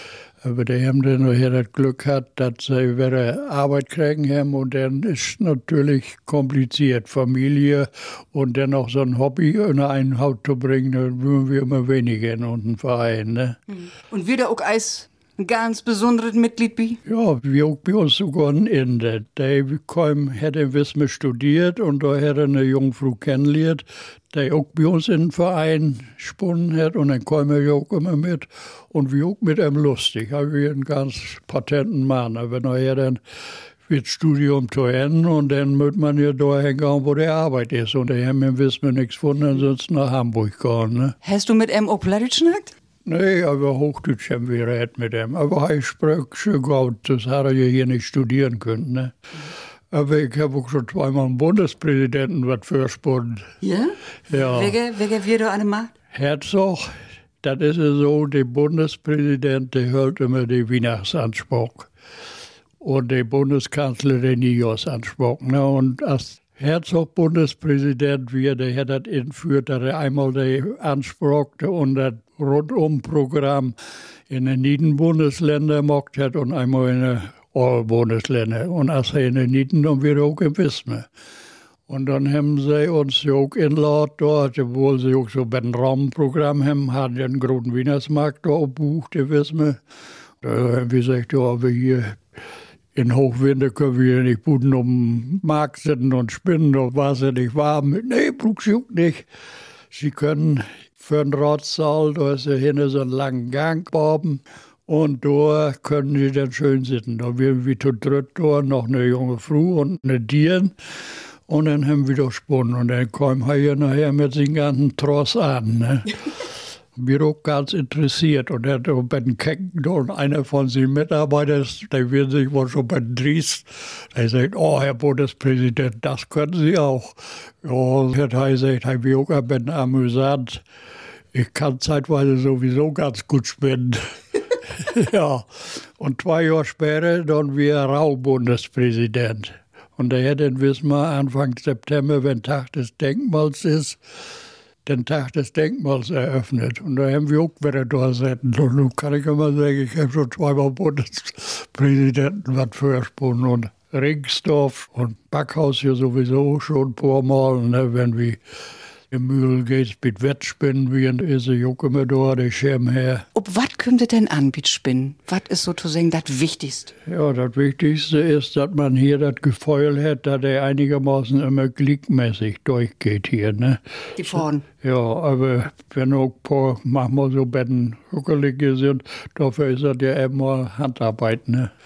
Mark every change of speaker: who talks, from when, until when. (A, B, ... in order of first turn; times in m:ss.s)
0:00.4-0:13.6 A
0:13.7-0:17.0 B
0:17.0-0:33.2 A
0:33.9-0:41.1 A
0:41.2-0:42.7 B
0:43.0-0:49.1 A
0:49.9-0:53.4 A
0:53.6-0:55.9 B
0:54.3-0:54.8 A
0:56.1-0:56.9 A
0:57.4-1:01.9 A
1:02.8-1:13.7 A
1:14.3-1:21.0 A
1:21.9-1:29.8 A
1:30.4-1:32.2 A
1:32.9-1:39.2 A
1:39.9-1:50.7 A
1:51.5-1:56.1 A
1:56.9-2:10.6 A
2:11.3-2:14.0 A
2:14.5-2:24.0 A
2:24.8-2:38.4 A
2:39.1-2:43.2 A
2:43.3-2:46.9 B
2:47.0-2:53.8 A
2:54.2-2:54.6 B
2:54.3-3:01.7 A